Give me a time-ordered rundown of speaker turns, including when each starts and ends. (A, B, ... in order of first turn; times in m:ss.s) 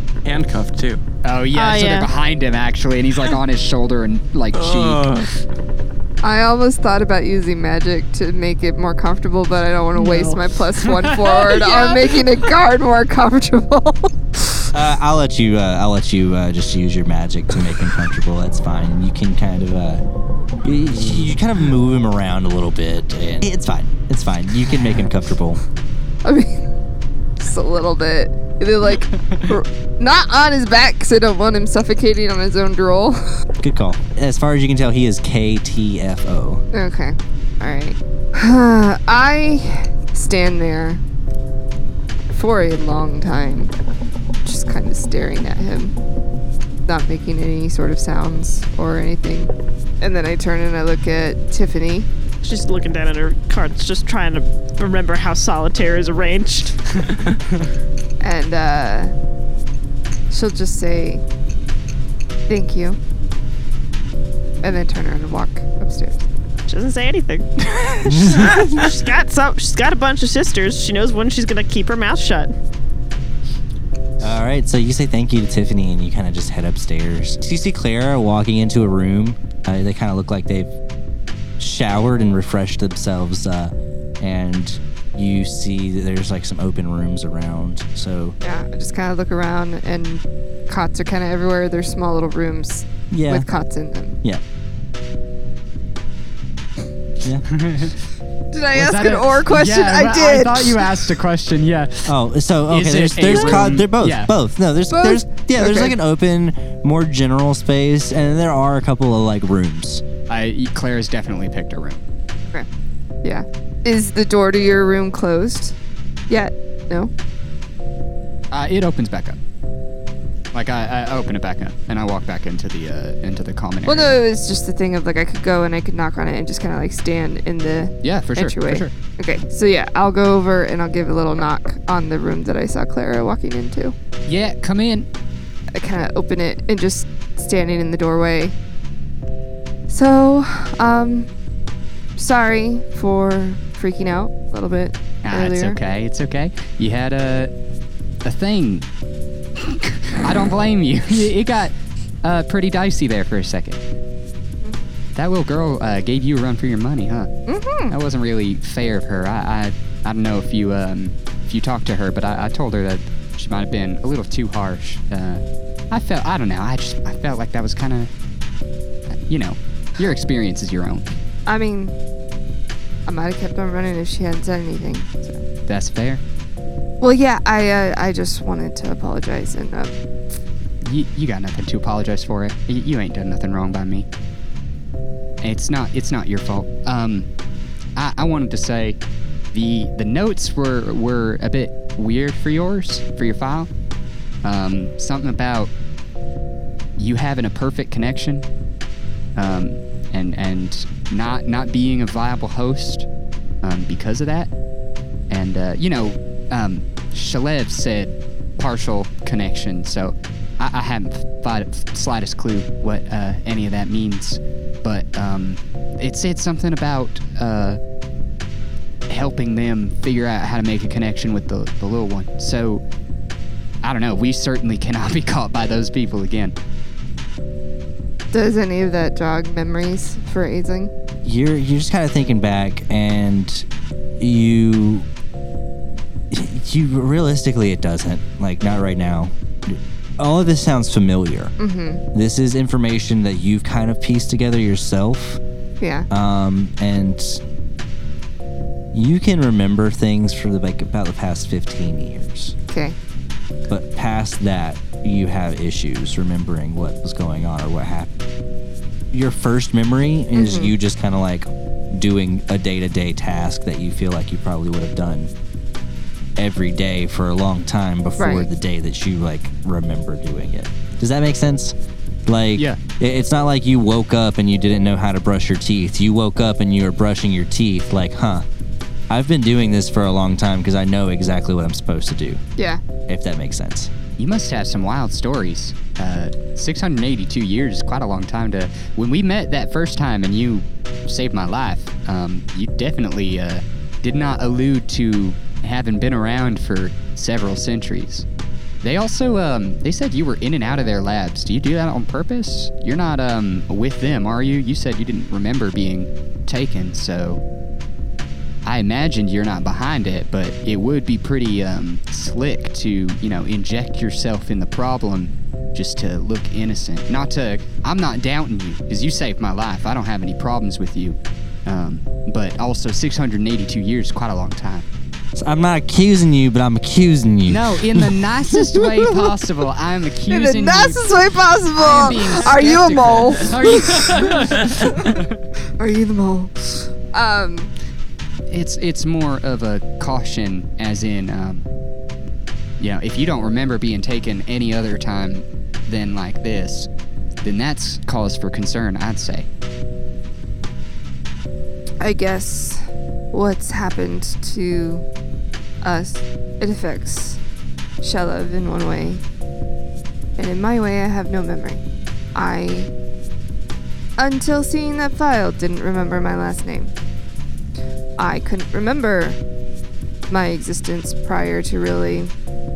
0:00.2-0:01.0 A
0:01.2-0:05.2 B
0:01.5-0:02.1 C
0:04.5-0:05.3 A
0:06.2-0:14.6 D
0:10.0-0:12.2 B
0:14.7-0:20.0 E
0:20.6-0:25.6 E
0:26.2-0:26.6 D
0:27.4-0:33.2 D
0:29.1-0:29.5 B
0:33.6-0:36.6 E
0:36.7-0:41.0 D
0:42.3-0:43.7 D
0:44.4-0:46.0 D
0:46.9-0:52.1 D
0:52.4-0:56.8 C
0:58.2-0:59.1 D
1:00.3-1:01.2 D
1:02.5-1:03.0 D
1:04.6-1:06.3 D
1:06.7-1:07.5 C
1:07.8-1:08.7 A
1:08.0-1:08.6 E
1:08.2-1:12.5 C
1:14.2-1:20.8 E
1:21.6-1:28.4 E
1:28.4-1:34.2 D
1:33.1-1:33.5 E
1:37.5-1:38.0 B
1:38.5-1:40.9 D
1:38.7-1:42.2 B
1:42.1-1:50.0 E
1:42.7-1:44.3 B
1:44.9-1:46.0 D
1:50.3-1:52.0 B
1:53.2-1:55.8 D
1:56.3-1:57.1 D
1:58.5-1:59.4 B
2:00.5-2:04.2 B
2:03.9-2:13.9 D
2:08.0-2:08.9 B
2:14.3-2:15.1 B
2:15.8-2:18.6 D
2:19.9-2:21.3 D
2:22.2-2:25.8 D
2:25.2-2:27.5 B
2:28.2-2:28.9 B
2:29.6-2:33.8 B
2:35.2-2:37.3 B
2:37.5-2:38.0 D
2:37.9-2:48.1 B
2:49.3-2:51.2 B
2:51.5-2:52.0 D
2:53.1-2:55.4 D
2:55.7-2:56.2 B
2:57.0-3:00.0 D
3:00.8-3:04.1 B
3:05.4-3:07.3 B
3:08.0-3:09.0 B
3:09.5-3:13.7 B
3:14.4-3:15.7 B
3:17.0-3:18.5 B
3:19.4-3:23.1 B
3:23.6-3:24.5 B
3:25.3-3:37.8 B
3:39.1-3:42.8 B
3:43.8-3:46.6 B
3:48.3-3:50.9 D
3:51.2-3:53.7 E
3:54.2-3:55.1 E
3:56.3-4:01.5 E
4:01.6-4:02.0 D
4:02.1-4:05.4 E
4:05.8-4:06.1 D
4:06.1-4:07.4 E
4:08.9-4:12.6 E
4:12.7-4:13.0 D
4:13.7-4:18.2 E
4:19.1-4:25.3 E
4:20.3-4:20.7 D
4:26.4-4:31.8 E
4:28.2-4:28.5 D
4:32.3-4:38.4 E
4:39.1-4:42.4 E
4:43.1-4:43.9 E
4:44.2-4:58.2 B
4:58.8-5:07.4 B
5:08.6-5:24.8 B
5:25.4-5:28.2 E
5:27.5-5:31.0 B
5:30.3-5:35.2 D
5:31.8-5:35.4 B
5:35.8-5:37.7 D
5:38.5-5:41.7 B
5:42.8-5:46.9 B
5:47.4-5:49.5 B
5:52.0-5:55.0 D
5:55.8-5:57.4 D
5:58.0-5:59.2 D
6:00.4-6:01.8 D
6:02.4-6:02.9 D
6:04.2-6:06.9 D
6:08.2-6:09.4 D
6:10.3-6:12.3 D